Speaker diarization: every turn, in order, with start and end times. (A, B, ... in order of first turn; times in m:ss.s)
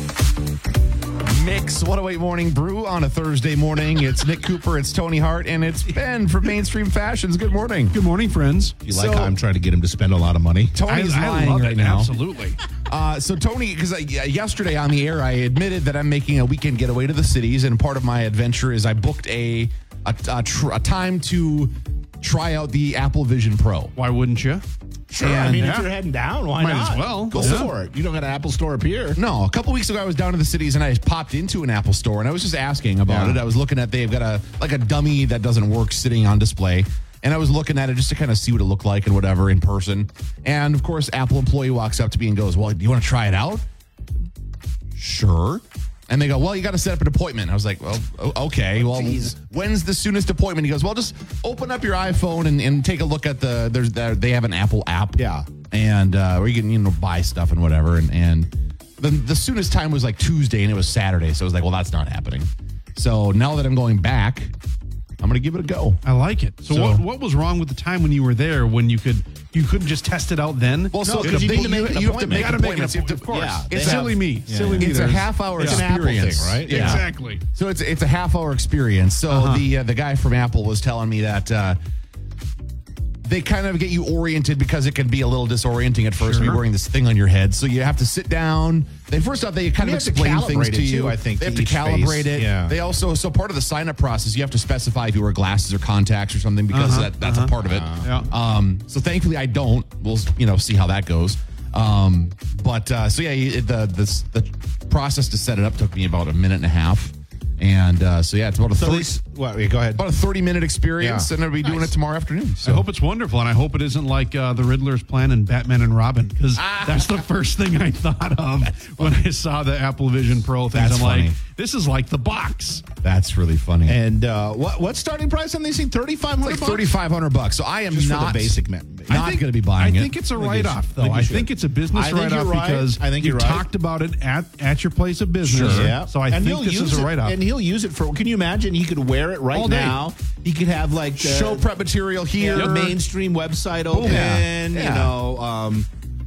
0:01.2-0:08.0 A
0:07.9-0:08.8 B
0:08.8-0:10.8 C
0:08.9-0:09.3 A
0:10.7-0:12.1 A
0:10.8-0:12.6 B
0:12.8-0:23.9 A
0:24.0-0:24.6 B
0:25.1-0:29.2 C
0:25.2-0:25.7 A
0:25.5-0:25.9 B
0:26.6-0:27.7 B
0:27.3-0:27.7 A
0:29.2-0:43.6 A
0:33.0-0:33.4 C
0:44.9-1:04.5 A
0:48.8-0:49.3 C
0:55.2-0:55.5 C
1:05.2-1:06.0 A
1:06.0-1:15.9 B
1:06.7-1:07.0 A
1:10.9-1:14.2 A
1:11.0-1:15.0 C
1:14.8-1:21.8 A
1:15.5-1:17.0 C
1:16.6-1:17.4 B
1:19.3-1:19.6 B
1:23.2-1:49.1 A
1:26.2-1:26.6 B
1:29.8-1:32.8 C
1:36.7-1:38.3 B
1:37.6-1:38.3 C
1:48.8-1:50.0 C
1:49.9-1:52.8 A
1:51.0-1:51.9 C
1:52.6-2:02.9 B
1:56.6-1:57.2 A
1:58.6-1:59.2 A
2:00.7-2:01.4 A
2:03.0-2:04.0 A
2:03.8-2:06.9 C
2:06.4-2:10.2 A
2:07.9-2:09.4 C
2:09.1-2:17.4 B
2:10.3-2:13.6 C
2:15.4-2:16.0 A
2:15.6-2:21.7 C
2:19.5-2:20.0 B
2:21.2-2:22.9 A
2:22.4-2:25.9 C
2:22.5-2:22.9 B
2:23.9-2:24.3 B
2:24.0-2:25.2 A